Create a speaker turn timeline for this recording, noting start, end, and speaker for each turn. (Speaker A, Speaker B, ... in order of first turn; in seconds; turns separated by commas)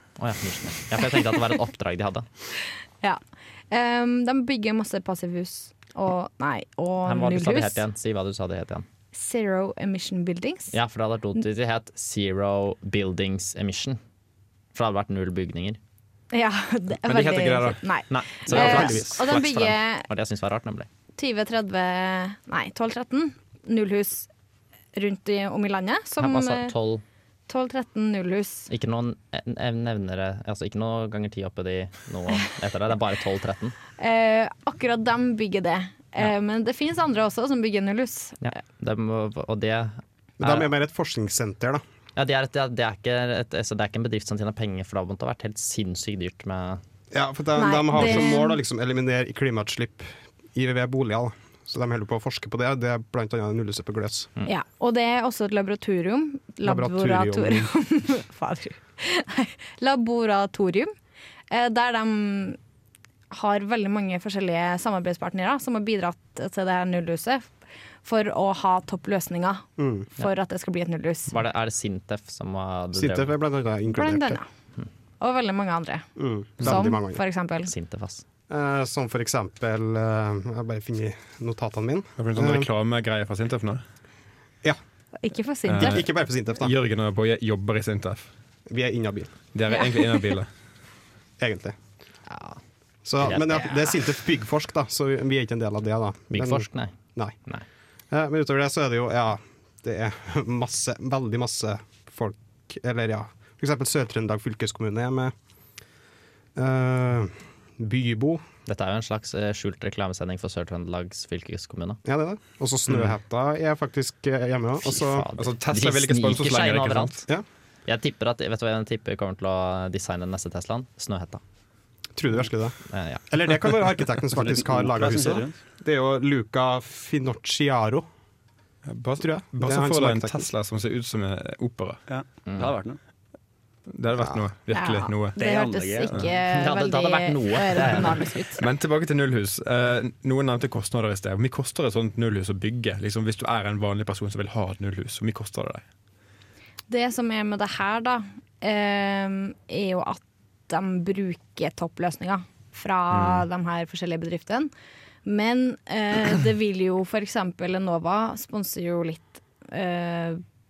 Speaker A: 0.2-2.3, Speaker B: 3.7-7.8, Speaker A: 7.0-8.9, Speaker B: 9.1-10.8, Speaker A: 10.7-14.0, Speaker A: 14.7-15.8, Speaker B: 16.3-20.1, Speaker C: 17.1-17.8, Speaker A: 18.1-20.9, Speaker C: 18.4-19.5, Speaker B: 21.2-24.3, Speaker B: 24.9-26.7, Speaker A: 26.2-27.0, Speaker B: 27.5-28.7, Speaker A: 28.7-33.8, Speaker B: 34.0-38.5, Speaker A: 38.4-40.7, Speaker D: 40.4-41.8, Speaker A: 42.1-46.8, Speaker D: 47.1-54.3, Speaker B: 47.5-48.6, Speaker B: 54.5-60.9, Speaker D: 56.6-57.7, Speaker B: 61.5-62.6, Speaker B: 63.3-67.5, Speaker B: 68.0-71.4, Speaker D: 69.8-70.1, Speaker A: 71.3-73.3, Speaker D: 72.9-74.4, Speaker B: 73.9-74.5, Speaker B: 75.2-77.7, Speaker D: 76.2-77.2, Speaker A: 77.6-78.2, Speaker D: 78.5-82.7, Speaker C: 82.2-83.8, Speaker B: 85.2-86.0, Speaker C: 85.7-88.3, Speaker D: 85.8-86.7, Speaker D: 88.7-89.3, Speaker C: 89.5-90.5, Speaker B: 89.7-90.0, Speaker D: 91.4-91.8, Speaker A: 92.3-92.6, Speaker D: 93.0-97.4, Speaker A: 93.2-93.8, Speaker A: 96.3-97.6, Speaker D: 98.1-105.3, Speaker D: 106.5-108.4, Speaker A: 108.7-112.0, Speaker D: 112.0-115.3, Speaker A: 114.8-117.2, Speaker C: 115.4-117.2, Speaker A: 117.8-121.4, Speaker D: 122.1-122.8, Speaker A: 122.9-123.2, Speaker D: 123.3-128.1, Speaker E: 124.3-125.5, Speaker C: 128.9-132.0, Speaker D: 129.2-130.5, Speaker E: 132.1-133.0, Speaker A: 132.5-132.7, Speaker C: 133.9-135.4, Speaker B: 134.7-138.6, Speaker E: 135.3-136.2, Speaker A: 136.5-138.3, Speaker C: 138.6-145.8, Speaker B: 146.9-154.7, Speaker B: 155.2-160.4